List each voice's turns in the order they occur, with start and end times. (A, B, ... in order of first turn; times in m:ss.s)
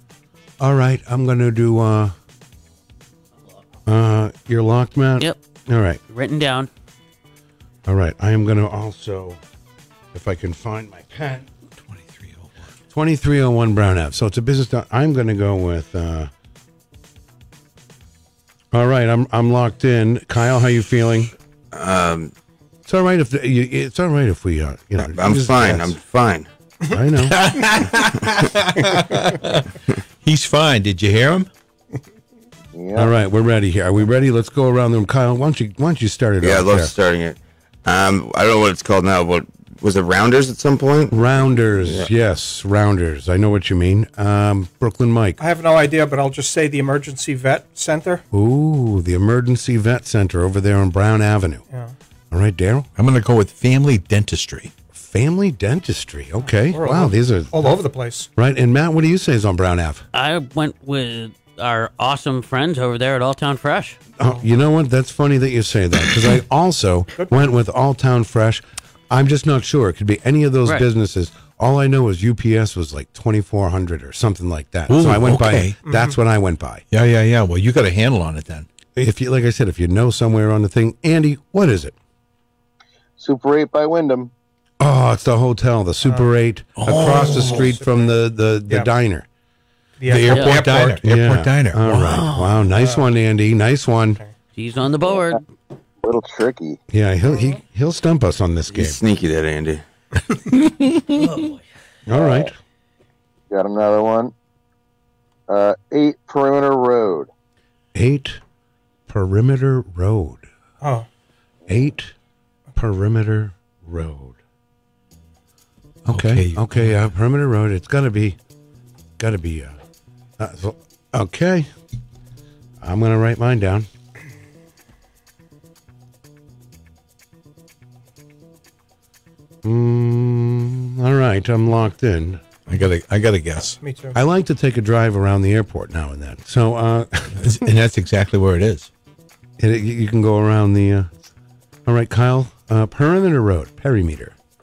0:00.6-0:02.2 A
0:03.9-0:06.0 A
0:06.1-0:06.7 B
0:07.9-0:09.4 A
0:10.1-0:11.5 A
0:11.8-0:12.7 C
0:12.9-0:16.3 A
0:18.7-0:21.3 A
0:21.7-0:22.3 D
0:22.9-0:26.0 A
0:25.0-0:26.5 D
0:26.9-0:27.5 A
0:27.3-0:29.7 C
0:30.2-0:31.5 C
0:32.7-0:33.1 E
0:33.0-0:36.9 A
0:36.4-0:41.2 D
0:41.1-0:45.4 A
0:41.8-0:42.1 D
0:45.4-0:48.2 F
0:48.3-0:51.6 A
0:51.7-0:52.0 F
0:52.3-0:52.9 A
0:53.0-0:54.7 C
0:54.9-0:57.7 A
0:56.5-0:58.3 F
0:58.4-1:00.0 A
1:00.1-1:04.0 B
1:04.2-1:16.8 A
1:07.2-1:07.4 F
1:14.9-1:15.8 C
1:15.8-1:16.2 F
1:16.9-1:18.7 C
1:19.0-1:22.0 A
1:23.2-1:24.3 E
1:24.8-1:29.3 A
1:26.0-1:26.3 F
1:26.8-1:27.7 C
1:27.0-1:28.9 F
1:30.0-1:31.0 F
1:30.1-1:32.3 C
1:30.3-1:30.6 B
1:31.0-1:34.2 A
1:32.1-1:32.5 B
1:32.7-1:33.1 F
1:34.6-1:35.4 B
1:35.1-1:35.4 E
1:36.0-1:36.8 E
1:36.9-1:39.0 A
1:37.3-1:37.6 F
1:38.7-1:39.8 D
1:40.7-1:41.1 C
1:41.2-1:41.6 B
1:42.1-1:42.5 A
1:42.1-1:42.5 E
1:43.5-1:44.3 E
1:45.5-1:47.3 E
1:47.9-1:48.4 A
1:49.1-1:50.5 A
1:50.8-1:51.1 F
1:51.7-1:52.1 A
1:52.8-1:54.4 A
1:56.1-1:58.4 A
1:56.1-1:57.0 C
1:59.2-1:59.8 A
2:00.4-2:01.7 A
2:02.8-2:03.9 A
2:09.6-2:12.6 A
2:12.7-2:13.8 C
2:13.8-2:14.2 F
2:14.1-2:17.6 A
2:17.4-2:18.9 C
2:19.6-2:21.1 A
2:21.9-2:24.3 A